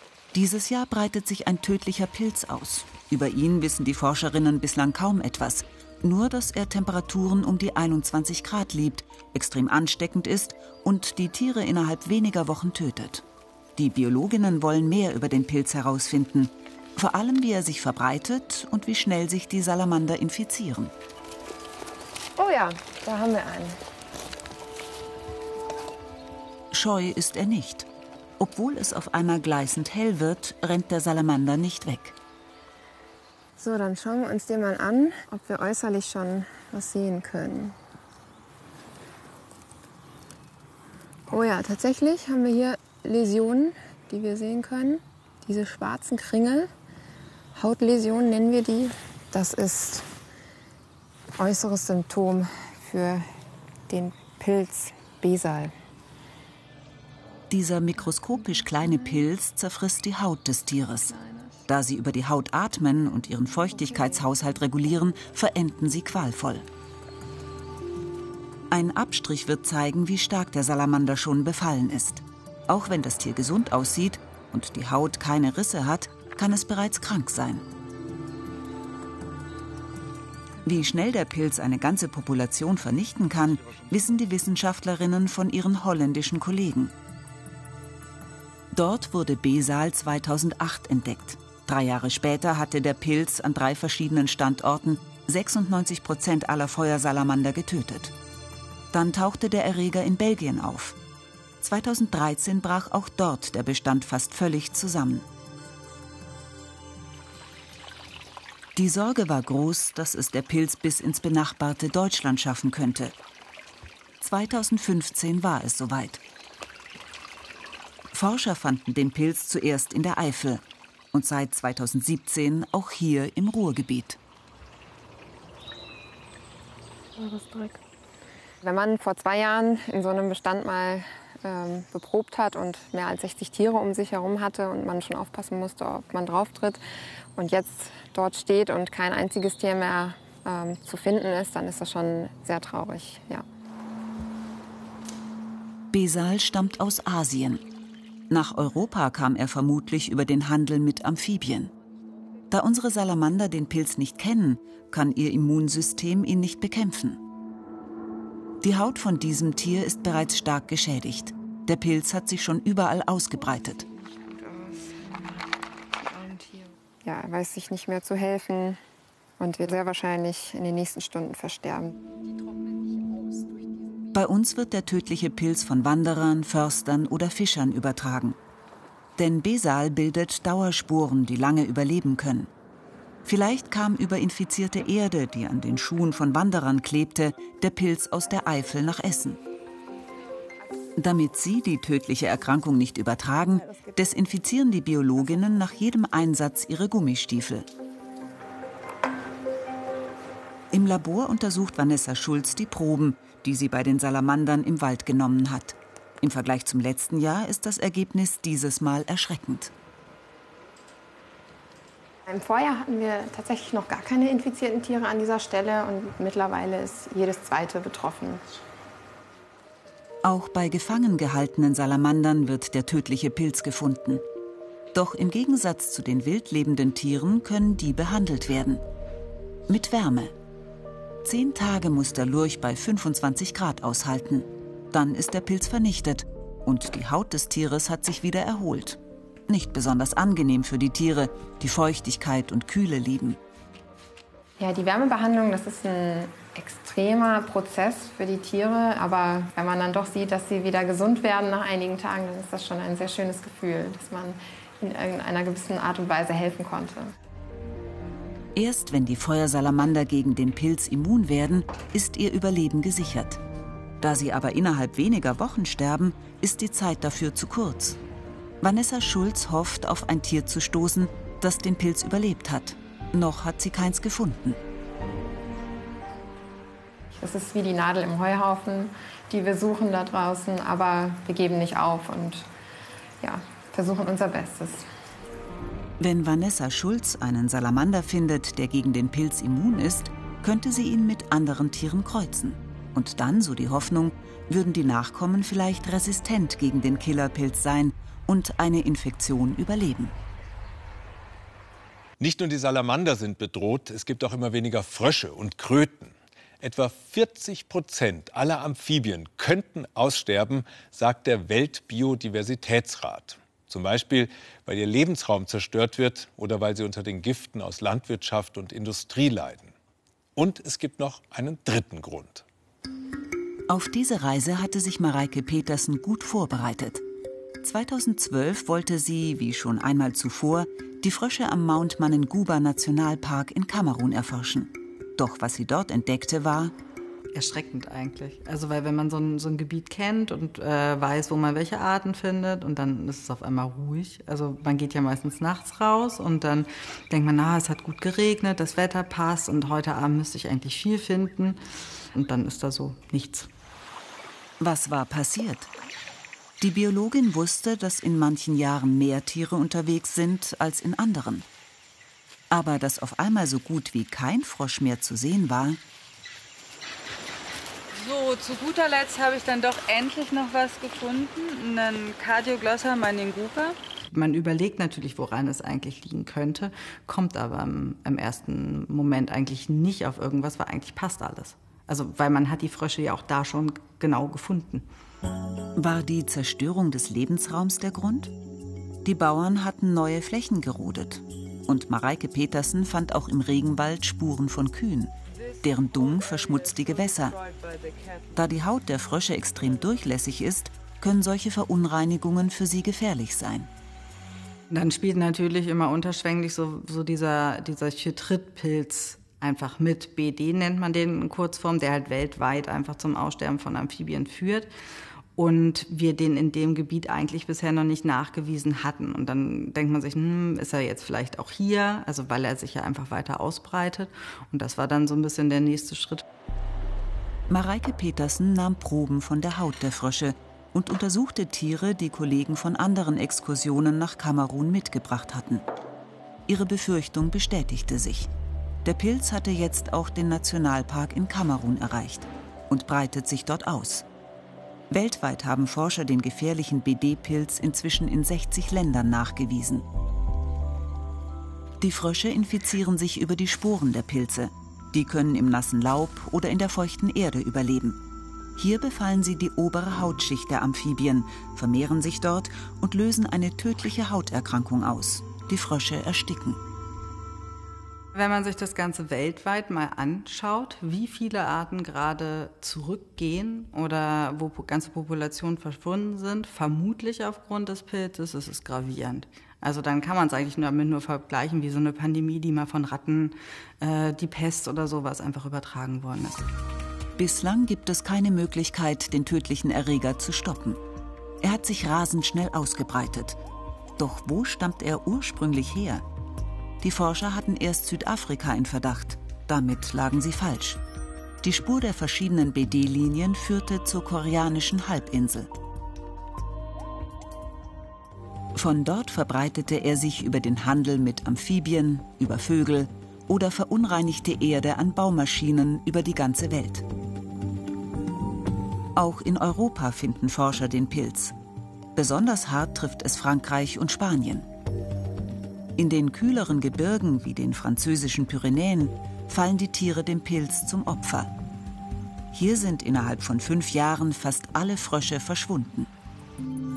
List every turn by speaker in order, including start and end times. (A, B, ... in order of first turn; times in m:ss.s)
0:00.3-0:13.2 A
0:13.8-0:20.9 A
0:22.4-0:23.8 B
0:26.7-0:27.9 A
0:28.4-0:32.2 A
0:33.6-0:37.8 B
0:41.3-0:46.7 B
0:47.6-0:50.0 B
0:51.4-0:53.3 B
0:53.9-0:55.7 B
0:57.5-1:06.6 A
1:08.7-1:17.6 A
1:20.6-1:26.9 A
1:28.7-1:38.1 A
1:38.9-1:41.0 A
1:41.6-1:45.3 A
1:48.8-1:53.1 A
1:54.2-1:56.2 A
1:58.1-2:04.2 A
2:07.2-2:07.7 B
2:08.6-2:16.8 B
2:17.3-2:23.4 B
2:25.9-2:27.6 A
2:28.3-2:31.7 A
2:32.5-2:37.2 A
2:38.6-2:43.8 A
2:44.0-2:45.5 B
2:46.0-2:48.8 B
2:49.4-2:52.0 B
2:54.1-2:58.4 A
2:59.2-3:02.5 A
3:03.2-3:09.4 A
3:11.0-3:17.7 A
3:20.7-3:29.7 A
3:32.2-3:38.4 B
3:40.2-3:44.2 A
3:44.9-3:48.8 A
3:49.7-3:50.3 A
3:51.2-4:03.4 A
4:04.6-4:17.1 B
4:18.5-4:23.4 A
4:24.0-4:28.0 A
4:28.6-4:34.6 A
4:37.1-4:42.5 B
4:43.2-4:44.8 B
4:46.0-5:00.1 A
5:02.2-5:19.7 C
5:20.4-5:22.4 C
5:23.7-5:27.0 A
5:27.6-5:36.7 A
5:37.3-5:51.6 D
5:52.1-5:53.5 D
5:54.6-5:55.7 A
5:56.6-6:01.5 A
6:02.5-6:05.8 A
6:07.9-6:24.8 D
6:25.8-6:28.3 A
6:29.0-6:37.4 A
6:38.3-6:43.7 A
6:44.7-6:54.7 D
6:55.4-7:06.2 D
7:07.5-7:15.6 A
7:16.4-7:18.3 A
7:18.8-7:24.0 A
7:24.9-7:29.8 A
7:31.8-7:38.0 A
7:38.6-7:46.6 A
7:48.1-8:06.5 D
8:07.2-8:10.8 A
8:11.4-8:13.4 A
8:14.0-8:16.0 A
8:16.8-8:20.8 A
8:21.4-8:25.5 A
8:28.5-8:36.8 A
8:38.9-8:41.3 A
8:41.9-8:44.5 A
8:45.8-8:51.3 A
8:52.3-8:55.9 A